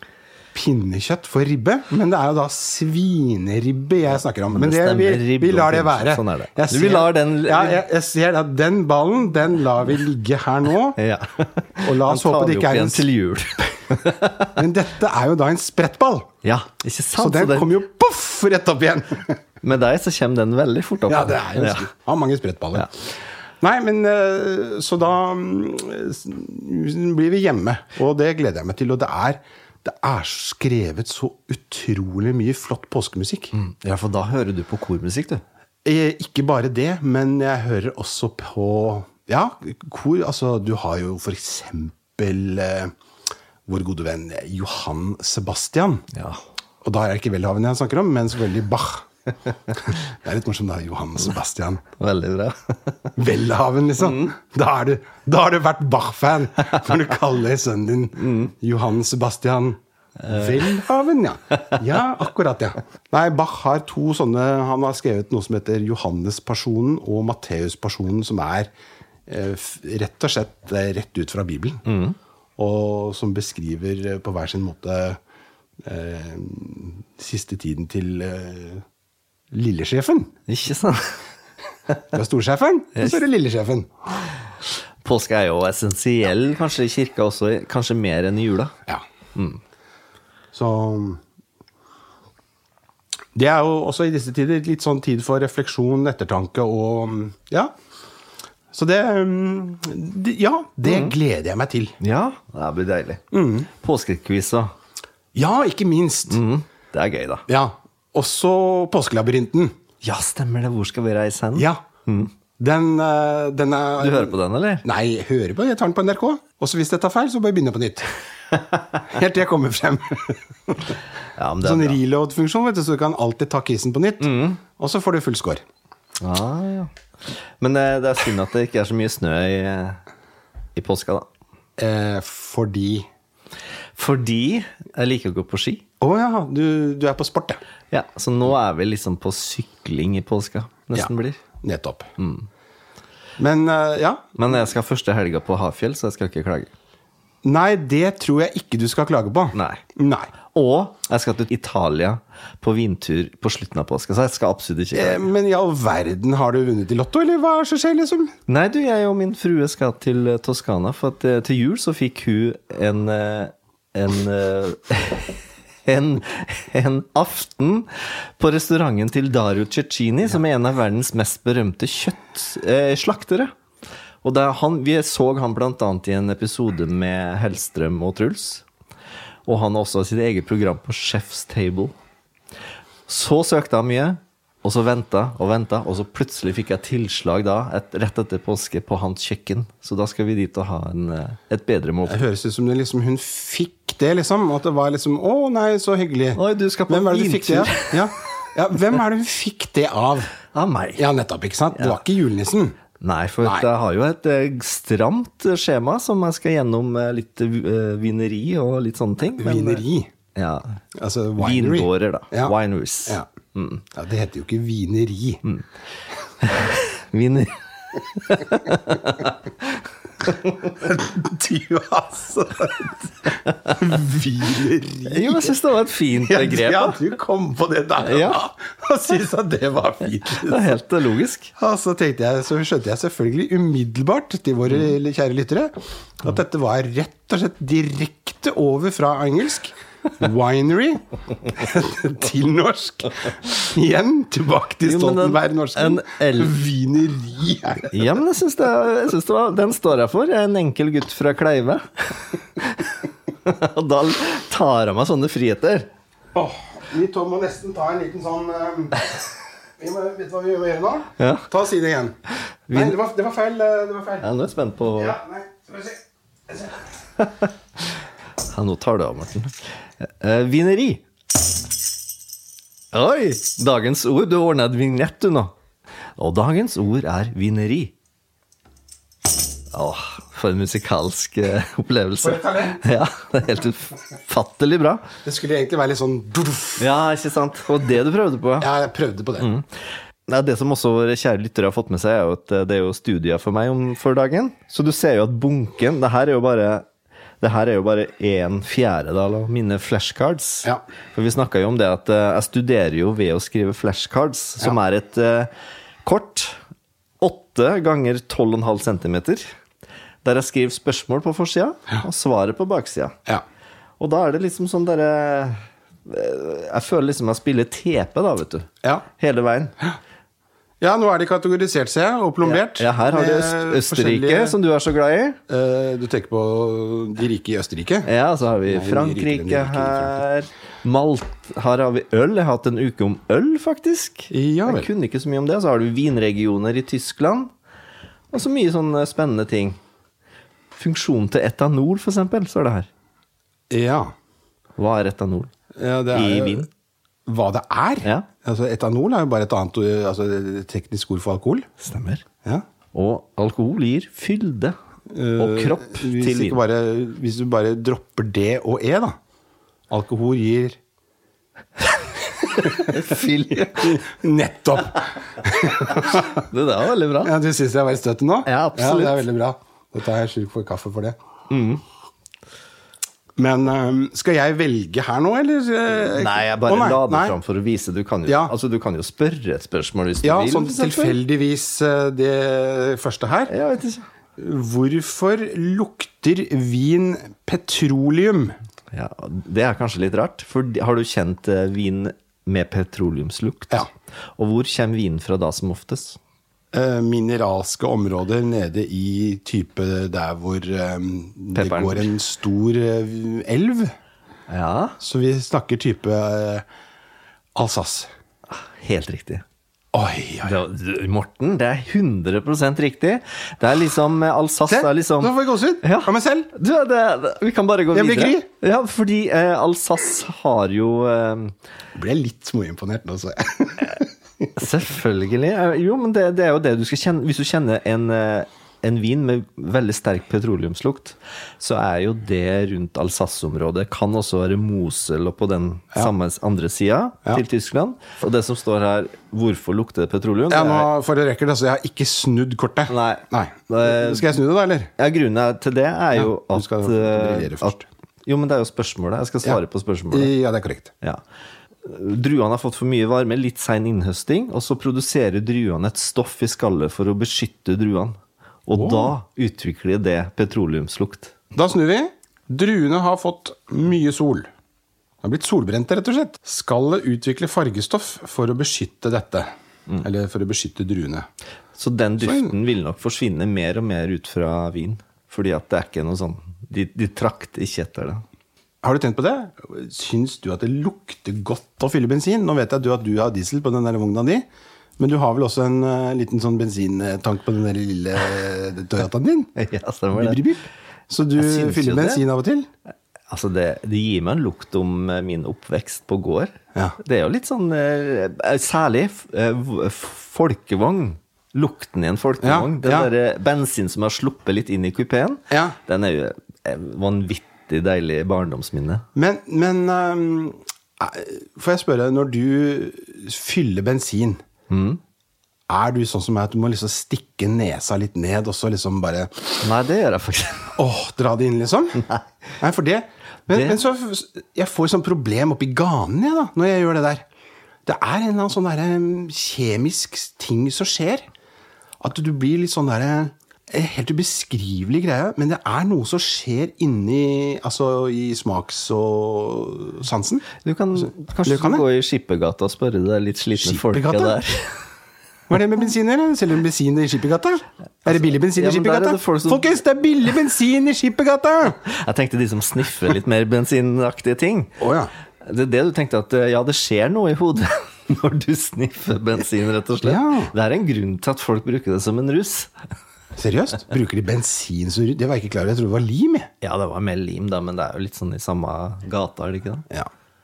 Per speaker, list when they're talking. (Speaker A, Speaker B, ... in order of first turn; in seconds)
Speaker A: 0.5-11.0, 11.8-13.0, 14.5-16.3, 17.1-19.4, 21.1-23.1, 23.6-33.5, 35.9-42.9, 43.7-46.1, 46.8-49.1, 49.7-51.8, 53.1-68.7, 69.3-71.8, 72.6-75.2, 75.8-78.8, 79.5-80.3, 82.1-83.9, 90.5-91.2, 93.3-97.7, 98.7-102.0, 103.3-103.7, 105.3-106.4, 107.5-109.8, 111.5-111.8, 112.6-118.1, 119.0-121.0, 121.6-125.6, 131.8-133.1, 136.0-137.6, 141.6-142.1, 143.4-144.3, 147.4-150.3, 154.9-158.3, 192.1-200.3, 201.0-202.8, 203.4-203.7, 209.4-210.1, 211.0-212.5, 213.9-215.4, 220.7-225.6, 226.2-230.7, 231.6-248.1, 256.4-259.2, 259.8-262.2, 262.7-264.3, 265.0-266.0, 282.2-282.8, 285.2-286.9, 288.6-289.5, 320.8-324.6, 325.5-328.1, 328.7-330.2, 334.3-334.9, 343.7-344.1, 345.8-346.7, 347.3-351.7, 355.1-359.2, 359.9-360.8, 362.5-366.5, 367.2-371.2, 373.4-377.4, 378.3-378.5, 380.2-383.5, 384.4-388.6, 396.7-403.9, 405.0-406.7, 407.6-408.1, 409.9-410.6, 414.7-416.5, 417.9-418.5, 421.9-424.5, 440.5-444.9, 446.1-447.9, 450.1-450.9, 458.7-459.1, 461.5-464.5, 465.2-471.3, 472.2-472.5, 478.8-484.4, 485.0-489.5, 490.1-492.7, 502.4-503.1, 505.5-505.8, 509.1-514.4, 515.7-519.6, 520.8-522.1, 522.6-527.2, 527.9-531.3, 532.0-541.9, 543.6-544.4, 545.5-551.8, 554.8-555.1, 560.0-560.5, 563.4-566.5
Speaker B: 4.5-7.8, 11.0-14.5, 16.4-17.8, 19.6-21.9, 33.5-35.4, 46.1-46.4, 52.0-53.1, 54.0-54.3, 58.2-58.5, 60.4-60.6, 71.9-72.2, 80.5-81.2, 85.0-88.7, 89.3-89.6, 100.8-101.2, 102.0-104.7, 106.3-107.5, 110.0-112.3, 114.0-114.8, 121.4-122.0, 124.2-124.6, 126.2-130.0, 130.8-131.3, 134.0-135.8, 137.9-141.4, 142.2-142.5, 144.4-146.7, 149.5-149.8, 150.5-155.2, 158.5-173.5, 174.2-178.7, 179.5-181.9, 183.1-192.2, 196.4-198.1, 200.5-201.1, 201.8-202.0, 203.0-209.8, 210.3-210.8, 211.4-213.8, 216.4-220.4, 225.1-227.0, 228.0-228.4, 230.3-231.5, 244.8-246.5, 247.9-255.9, 261.2-261.5, 262.7-263.0, 264.2-265.2, 267.2-267.5, 268.4-271.1, 272.9-275.5, 276.2-277.9, 279.7-285.1, 286.8-288.7, 289.4-289.7, 290.3-296.9, 297.4-305.5, 306.0-306.6, 307.2-309.5, 310.2-313.2, 314.0-319.7, 322.4-325.4, 328.1-337.5, 338.3-339.8, 340.8-342.9, 344.8-345.5, 346.1-346.7, 351.8-352.2, 352.9-354.8, 355.4-356.6, 362.5-364.0, 365.7-367.3, 368.5-369.2, 371.5-371.8, 376.0-381.2, 383.5-384.1, 388.9-393.9, 394.4-396.2, 401.6-402.1, 404.5-405.0, 408.5-409.4, 410.4-421.6, 424.6-440.9, 442.9-444.4, 445.0-447.7, 448.2-450.3, 451.8-461.3, 471.8-478.2, 489.6-490.4, 491.4-492.2, 493.3-509.1, 514.7-515.0, 519.6-520.8, 523.5-523.8, 540.6-544.8, 548.1-549.7, 551.8-554.8, 555.4-562.7, 566.6-569.9